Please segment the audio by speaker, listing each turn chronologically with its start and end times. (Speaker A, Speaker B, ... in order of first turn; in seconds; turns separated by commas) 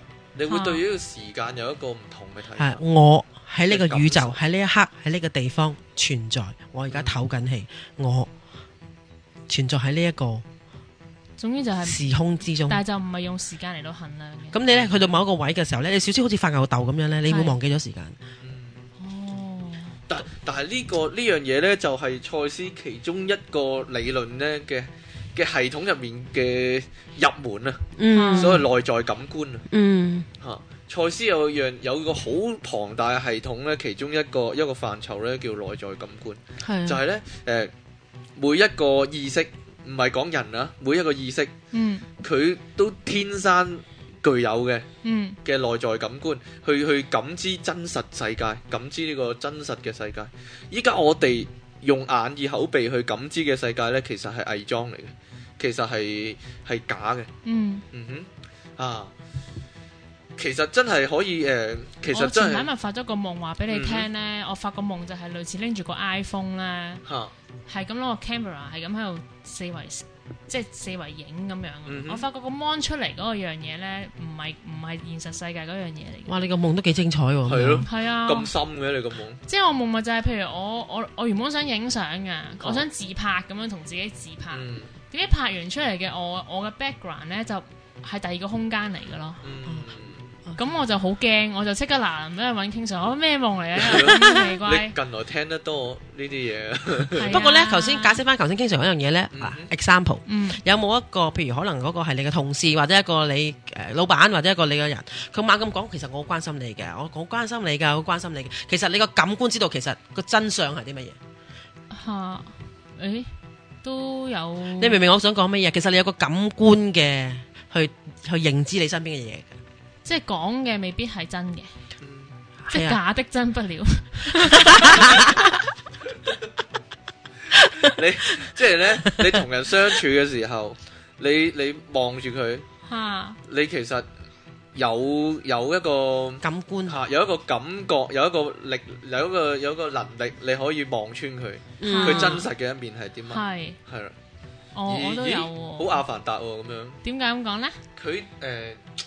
Speaker A: 0.3-2.8, Speaker B: 0.5-0.8, Speaker C: 2.6-8.3, Speaker A: 3.7-4.4, Speaker A: 6.9-7.2, Speaker C: 9.5-10.4, Speaker B: 11.4-12.0, Speaker C: 11.8-12.8, Speaker B: 12.7-14.6, Speaker C: 14.5-18.2, Speaker A: 14.7-14.9, Speaker B: 17.3-17.6, Speaker A: 18.4-18.9, Speaker B: 19.0-20.0, Speaker A: 20.1-27.8, Speaker C: 28.0-28.7, Speaker B: 28.1-28.6, Speaker A: 28.4-29.6, Speaker C: 29.7-30.3, Speaker A: 30.4-37.7, Speaker C: 36.6-37.0, Speaker A: 38.4-41.5, Speaker B: 41.7-42.0, Speaker A: 42.2-44.9, Speaker B: 45.0-45.4, Speaker A: 45.4-57.3, Speaker B: 57.4-57.8, Speaker A: 57.9-59.1, Speaker A: 60.4-62.7, Speaker B: 62.1-67.0, Speaker A: 63.7-64.0, Speaker A: 67.0-67.3, Speaker B: 67.7-76.3, Speaker A: 71.8-72.2, Speaker C: 76.3-77.9, Speaker A: 77.5-79.4, Speaker B: 77.8-78.5, Speaker B: 79.5-89.4, Speaker A: 82.6-82.8, Speaker A: 84.5-84.9, Speaker A: 89.4-90.3, Speaker B: 90.5-94.9, Speaker A: 93.7-97.4, Speaker C: 94.1-94.4, Speaker B: 97.1-98.2, Speaker C: 97.3-111.2, Speaker A: 99.3-99.7, Speaker B: 100.2-100.6, Speaker B: 111.9-113.3, Speaker B: 113.8-115.0, Speaker C: 114.8-119.5, Speaker B: 120.0-121.7, Speaker A: 122.0-122.3, Speaker C: 122.6-123.0, Speaker B: 122.7-125.3, Speaker C: 124.7-125.3, Speaker A: 127.8-132.6, Speaker C: 129.1-129.4, Speaker B: 132.9-133.4, Speaker A: 133.4-134.0, Speaker A: 134.7-144.1, Speaker C: 136.4-137.0, Speaker C: 141.8-142.4, Speaker B: 141.8-142.5, Speaker B: 143.3-143.8, Speaker B: 144.7-146.0, Speaker A: 144.9-147.0, Speaker B: 147.0-147.8, Speaker A: 148.0-148.8